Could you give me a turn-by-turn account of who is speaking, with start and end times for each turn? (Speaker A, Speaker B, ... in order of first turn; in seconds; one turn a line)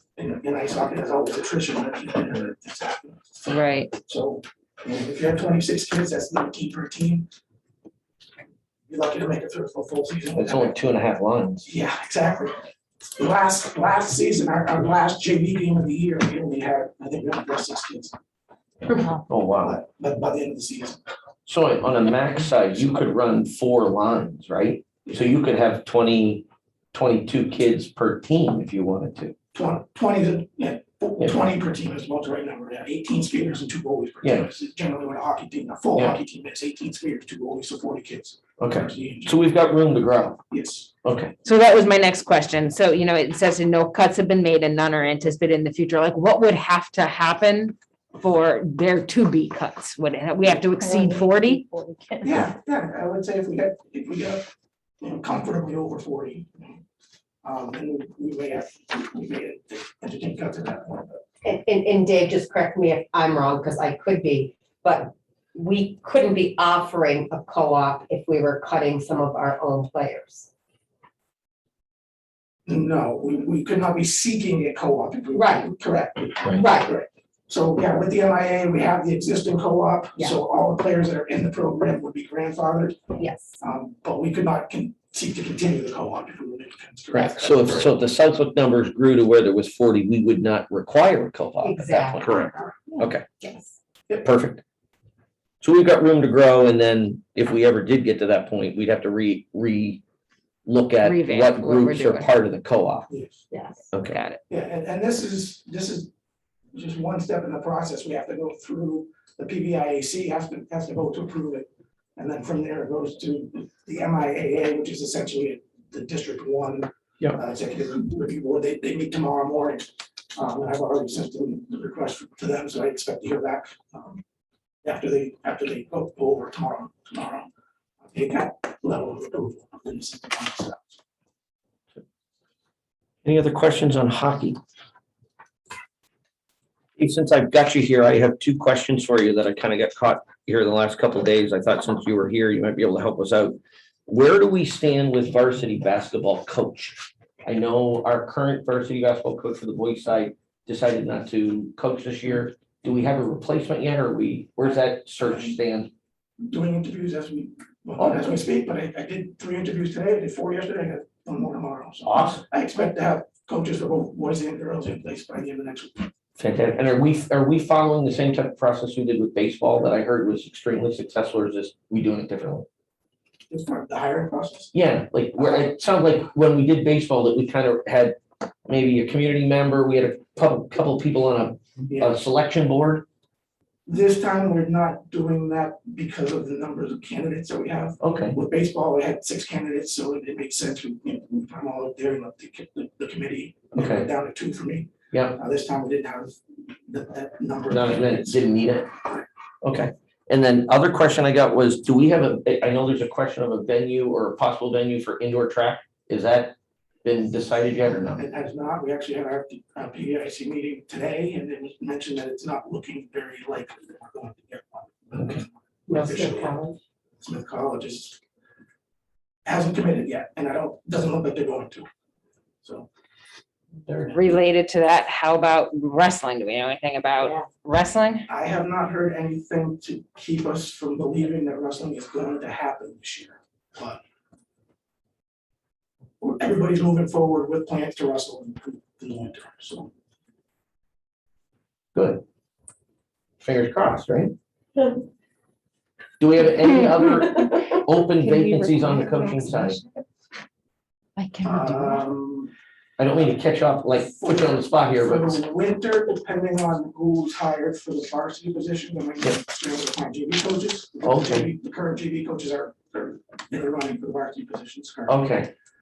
Speaker A: 0.2-7.3
Speaker B: 3.5-4.0
Speaker A: 8.9-10.8
Speaker C: 10.4-11.7
Speaker A: 11.6-12.6
Speaker A: 13.2-18.1
Speaker C: 19.2-19.8
Speaker A: 19.6-21.0
Speaker C: 21.5-29.3
Speaker A: 25.1-25.4
Speaker A: 29.5-39.5
Speaker C: 34.2-34.5
Speaker C: 38.6-40.4
Speaker A: 40.5-40.9
Speaker C: 41.0-41.3
Speaker B: 41.4-52.4
Speaker A: 52.2-54.4
Speaker A: 55.0-56.8
Speaker A: 57.4-61.2
Speaker D: 61.4-70.5
Speaker A: 72.7-83.0
Speaker D: 75.3-75.7
Speaker D: 76.5-76.9
Speaker D: 83.2-83.6
Speaker A: 83.6-88.0
Speaker C: 87.1-93.2
Speaker D: 91.6-93.8
Speaker C: 94.2-94.6
Speaker C: 95.6-100.0
Speaker C: 100.7-103.1
Speaker B: 101.0-102.3
Speaker A: 103.1-103.5
Speaker D: 103.5-103.9
Speaker C: 103.9-104.2
Speaker B: 104.0-104.4
Speaker A: 104.5-106.1
Speaker A: 106.7-124.2
Speaker A: 124.8-127.5
Speaker A: 128.1-131.0
Speaker C: 133.2-134.6
Speaker C: 137.0-155.9
Speaker A: 155.2-155.6
Speaker A: 156.4-166.1
Speaker C: 158.0-158.4
Speaker C: 162.0-162.4
Speaker C: 166.4-172.7
Speaker A: 173.5-174.7
Speaker C: 174.7-183.1
Speaker A: 175.4-175.7
Speaker A: 181.9-182.2
Speaker A: 183.9-198.4
Speaker C: 188.0-188.4
Speaker C: 193.8-194.1
Speaker C: 195.1-195.4
Speaker C: 197.7-198.9
Speaker C: 199.6-208.2
Speaker A: 208.2-216.6
Speaker D: 215.9-216.8
Speaker A: 217.2-218.2
Speaker A: 219.4-221.9
Speaker A: 222.6-222.9
Speaker B: 224.1-228.3
Speaker A: 228.3-234.0
Speaker A: 236.2-239.9
Speaker C: 241.9-242.2
Speaker C: 243.4-244.3
Speaker C: 246.2-249.8
Speaker B: 248.3-249.8
Speaker B: 251.2-252.0
Speaker A: 251.4-252.5
Speaker C: 253.0-255.4
Speaker A: 254.2-265.4
Speaker C: 261.0-261.5
Speaker C: 265.1-265.5